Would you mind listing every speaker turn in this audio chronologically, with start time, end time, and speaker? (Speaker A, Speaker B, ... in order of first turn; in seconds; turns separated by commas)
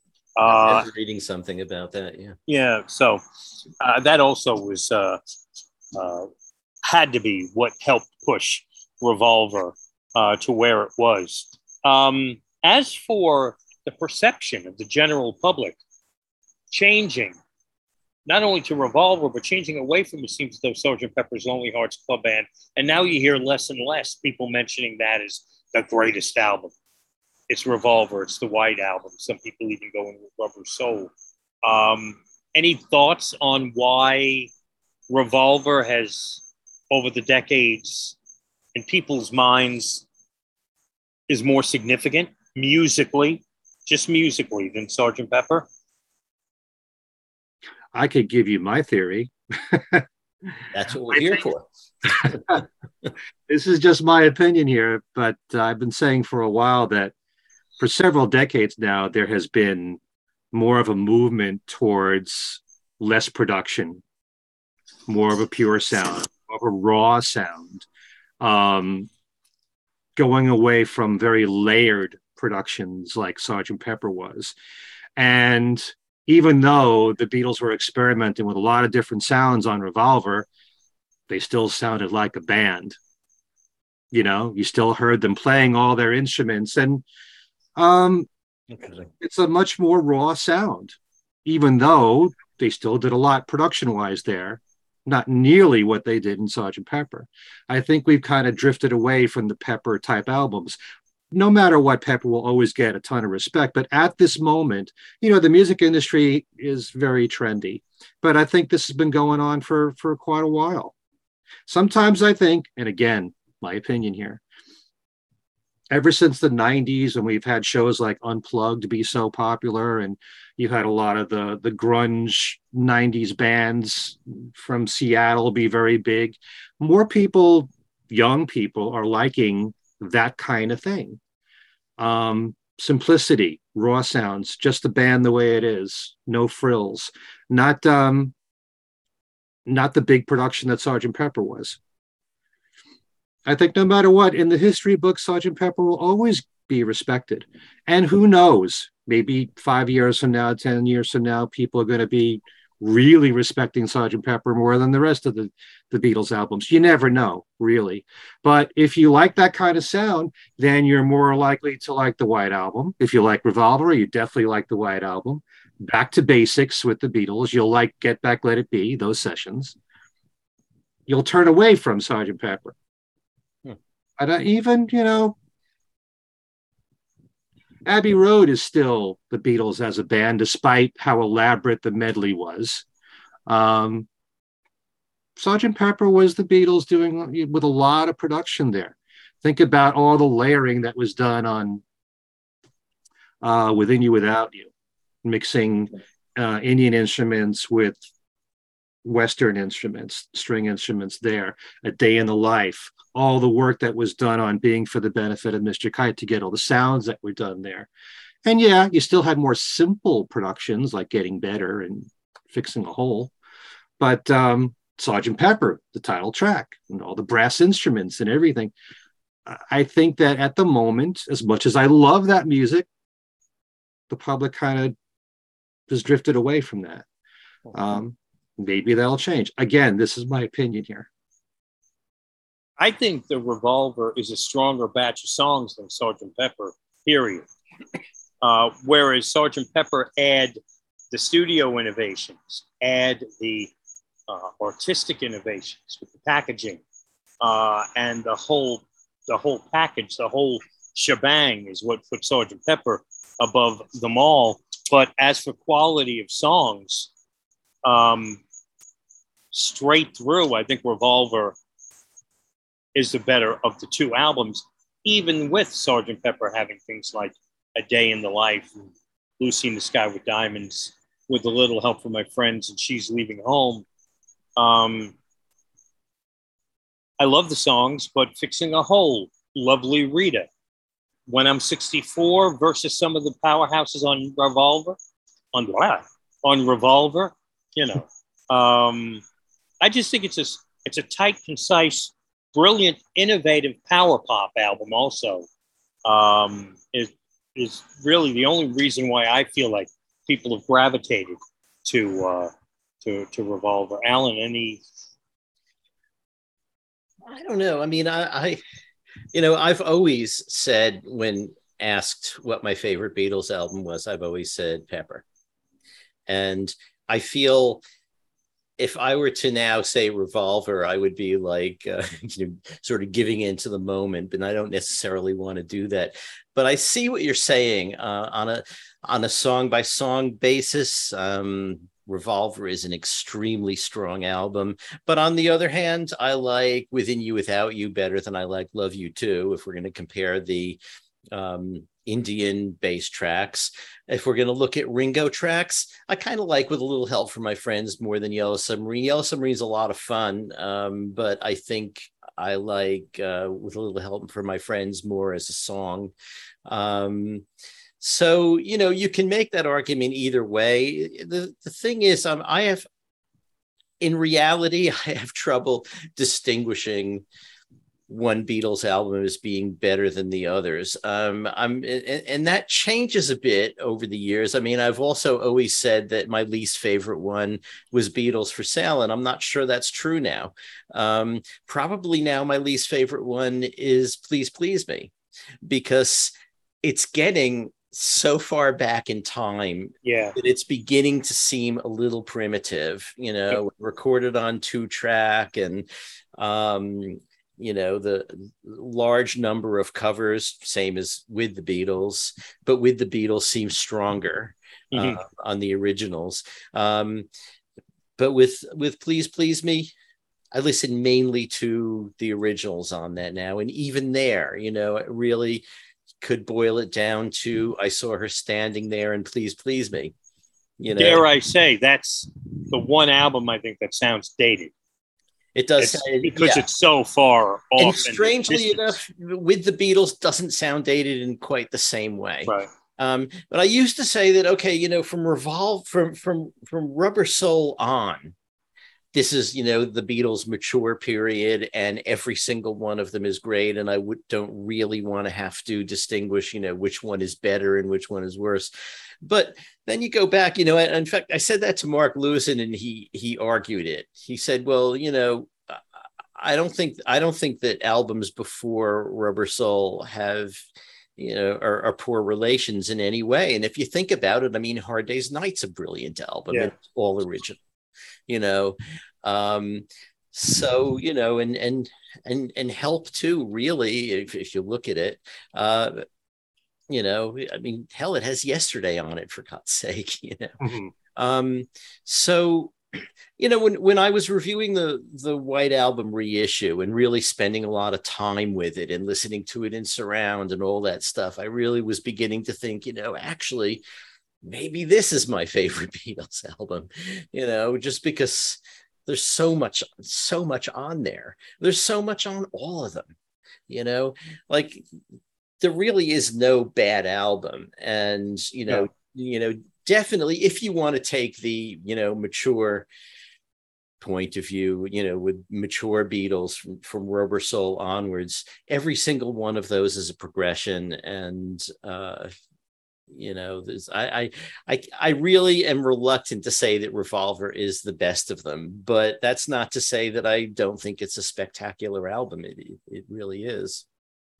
Speaker A: 0.4-0.9, Speaker B: 0.4-2.4, Speaker A: 2.5-3.2, Speaker A: 3.8-5.2, Speaker A: 5.9-6.3, Speaker A: 6.8-15.8, Speaker A: 16.7-17.4, Speaker A: 18.2-26.7, Speaker A: 27.5-31.1, Speaker A: 31.6-34.5, Speaker A: 35.1-38.1, Speaker A: 38.7-40.0, Speaker A: 41.3-45.6, Speaker C: 47.9-50.0, Speaker B: 50.7-52.6, Speaker C: 51.1-51.4, Speaker C: 52.2-52.6, Speaker C: 53.5-57.1, Speaker C: 57.8-60.0, Speaker C: 60.5-64.0, Speaker C: 65.1-67.8, Speaker C: 68.4-69.1, Speaker C: 70.2-74.5, Speaker C: 75.2-80.5, Speaker C: 81.3-83.0, Speaker C: 84.1-87.0, Speaker C: 87.8-88.3, Speaker B: 88.7-89.1, Speaker C: 89.2-100.8, Speaker C: 101.3-110.9, Speaker C: 111.7-114.4, Speaker C: 115.9-131.2, Speaker C: 132.0-138.3, Speaker C: 139.7-141.8, Speaker C: 143.4-169.8, Speaker C: 171.1-172.7, Speaker C: 174.2-175.4, Speaker C: 177.8-182.8, Speaker C: 183.5-184.1, Speaker C: 185.4-191.8, Speaker C: 193.4-194.7, Speaker C: 195.2-198.0, Speaker C: 199.0-207.9, Speaker C: 208.4-213.3, Speaker C: 214.0-218.7, Speaker C: 219.4-222.9, Speaker C: 224.1-224.9, Speaker C: 225.9-227.1, Speaker C: 227.7-231.1, Speaker A: 232.8-237.5, Speaker A: 238.4-240.6, Speaker A: 241.1-243.7, Speaker A: 244.3-246.8, Speaker A: 247.4-257.1, Speaker A: 257.8-258.4, Speaker A: 259.5-261.6, Speaker A: 262.9-268.7, Speaker A: 269.4-273.8, Speaker A: 274.6-275.1, Speaker A: 277.2-280.5, Speaker A: 281.3-285.0, Speaker A: 285.5-289.2, Speaker A: 289.8-295.4, Speaker A: 296.0-302.5, Speaker A: 303.0-304.8, Speaker B: 307.3-308.6, Speaker B: 309.3-315.2, Speaker B: 316.3-317.8, Speaker B: 318.8-340.8, Speaker B: 341.3-356.1, Speaker B: 356.7-357.4, Speaker B: 358.0-362.9, Speaker B: 364.0-367.2, Speaker B: 368.1-385.1, Speaker B: 385.6-395.9, Speaker A: 390.0-390.4, Speaker B: 396.4-407.3, Speaker A: 404.9-405.2, Speaker B: 408.2-409.9, Speaker B: 410.5-415.6, Speaker B: 416.2-420.1, Speaker B: 420.8-421.2, Speaker A: 421.0-424.7, Speaker B: 425.5-426.6, Speaker A: 425.8-429.0, Speaker B: 427.8-438.3, Speaker B: 439.1-448.7, Speaker B: 449.2-455.8, Speaker B: 456.4-460.6, Speaker B: 461.2-467.6, Speaker B: 468.3-476.0, Speaker B: 476.9-480.6, Speaker C: 480.6-480.9, Speaker B: 481.1-482.7, Speaker B: 483.4-493.8, Speaker B: 494.4-503.1, Speaker B: 503.7-504.8, Speaker B: 505.6-512.9, Speaker B: 514.0-522.3, Speaker B: 523.1-533.8